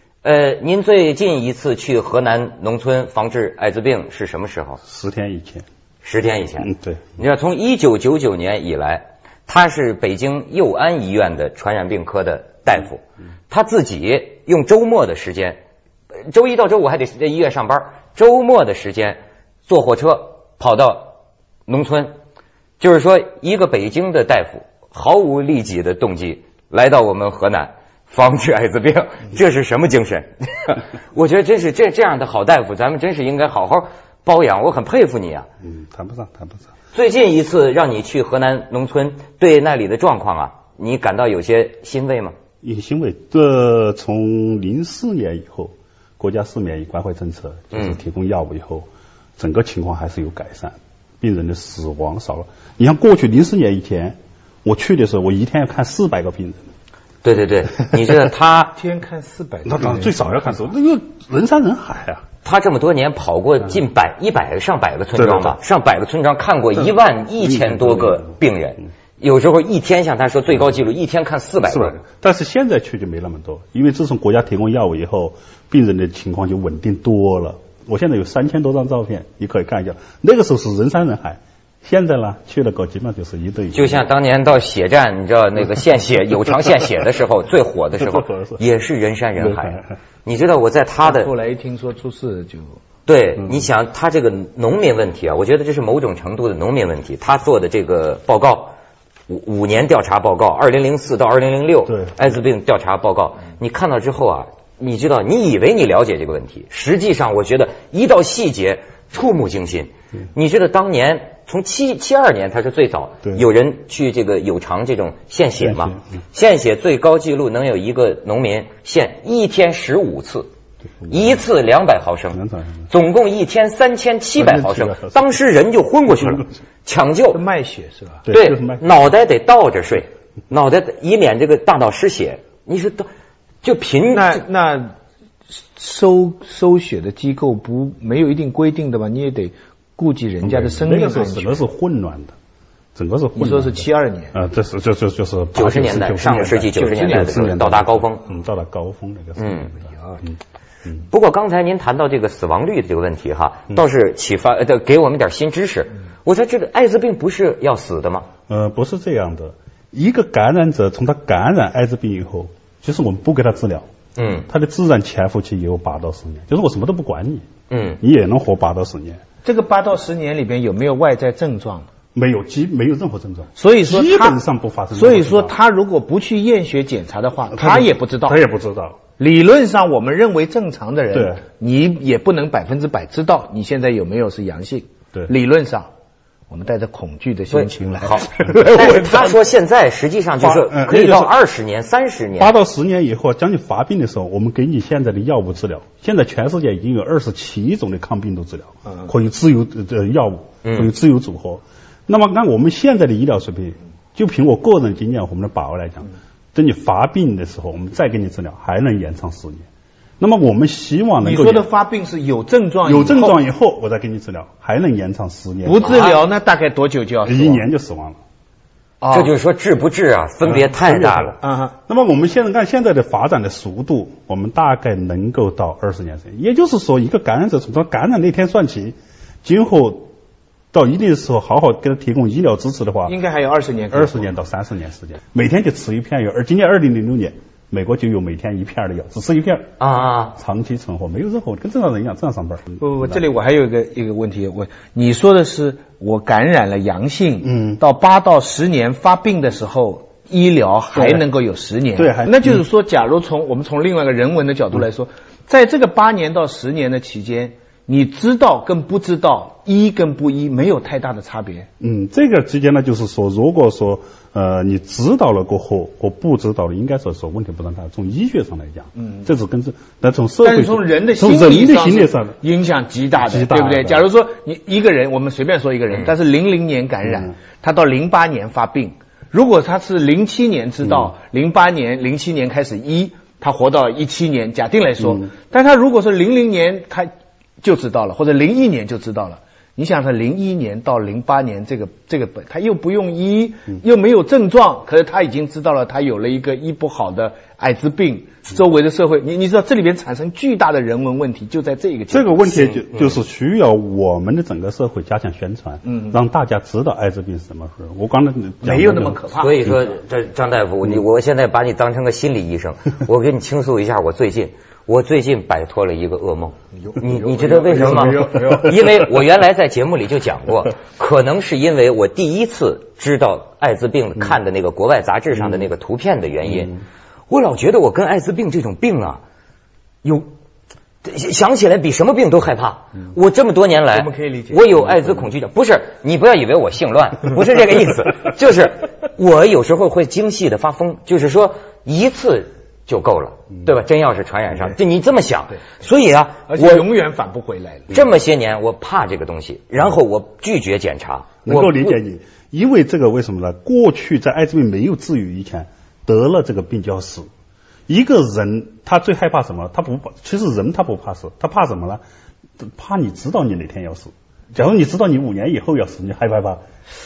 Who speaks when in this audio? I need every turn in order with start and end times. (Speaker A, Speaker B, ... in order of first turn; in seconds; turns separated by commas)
Speaker A: 0.2-4.8, Speaker B: 4.8-5.7, Speaker A: 6.0-15.6, Speaker B: 6.6-7.1, Speaker A: 16.3-21.1, Speaker A: 21.7-22.1, Speaker A: 22.8-35.5, Speaker B: 35.6-36.7, Speaker A: 36.9-42.3, Speaker B: 42.6-56.6, Speaker A: 47.7-48.0, Speaker A: 57.2-58.8, Speaker C: 58.7-60.5, Speaker B: 59.6-62.2, Speaker A: 62.4-71.9, Speaker B: 65.2-65.5, Speaker B: 67.4-68.3, Speaker B: 71.6-84.0, Speaker A: 83.7-91.3, Speaker B: 88.0-88.6, Speaker B: 89.4-89.9, Speaker C: 91.0-92.8, Speaker A: 93.0-98.7, Speaker B: 93.4-93.7, Speaker A: 99.3-120.5, Speaker B: 101.9-102.2, Speaker B: 115.6-116.0, Speaker A: 121.1-122.4, Speaker B: 122.3-122.8, Speaker A: 122.9-127.4, Speaker B: 124.4-125.4, Speaker B: 126.1-126.4, Speaker C: 127.3-128.2, Speaker B: 128.2-128.8, Speaker A: 128.3-133.1, Speaker A: 133.6-134.4, Speaker C: 134.1-134.9, Speaker C: 135.6-141.6, Speaker B: 140.4-142.3, Speaker B: 142.9-149.9, Speaker C: 143.3-144.3, Speaker A: 145.5-148.2, Speaker C: 146.7-147.6, Speaker A: 149.4-149.7, Speaker A: 151.1-158.3, Speaker B: 158.5-163.9, Speaker A: 164.2-164.5, Speaker B: 164.4-167.5, Speaker A: 167.7-168.0, Speaker B: 168.0-169.2, Speaker C: 169.4-171.9, Speaker B: 172.1-175.5, Speaker C: 173.6-174.4, Speaker C: 174.9-178.4, Speaker B: 177.5-179.0, Speaker C: 179.2-185.9, Speaker B: 181.1-181.4, Speaker C: 186.5-189.4, Speaker A: 187.5-192.5, Speaker B: 190.4-191.3, Speaker B: 192.3-209.7, Speaker A: 200.6-200.9, Speaker B: 210.2-211.7, Speaker C: 211.2-213.4, Speaker B: 212.8-216.0, Speaker C: 215.6-217.6, Speaker A: 215.8-216.2, Speaker B: 217.2-218.2, Speaker C: 219.0-219.3, Speaker A: 219.1-221.4, Speaker B: 220.4-230.1, Speaker C: 221.4-221.7, Speaker B: 230.7-233.1, Speaker C: 233.1-234.3, Speaker B: 233.9-239.7, Speaker A: 239.8-240.3, Speaker B: 240.3-243.2, Speaker C: 242.8-261.7, Speaker B: 247.4-247.8, Speaker B: 250.9-251.2, Speaker B: 252.0-252.6, Speaker B: 261.8-272.4, Speaker C: 270.4-287.1, Speaker B: 273.2-274.1, Speaker C: 287.6-302.8, Speaker B: 302.1-309.2, Speaker C: 305.9-306.1, Speaker C: 308.6-309.6, Speaker A: 309.4-326.7, Speaker B: 316.9-319.1, Speaker C: 317.5-318.7, Speaker A: 327.3-329.2, Speaker A: 331.0-346.9, Speaker C: 333.9-335.2, Speaker C: 346.5-348.0, Speaker A: 347.9-351.9, Speaker B: 351.4-357.3, Speaker B: 357.9-362.0, Speaker B: 362.6-366.6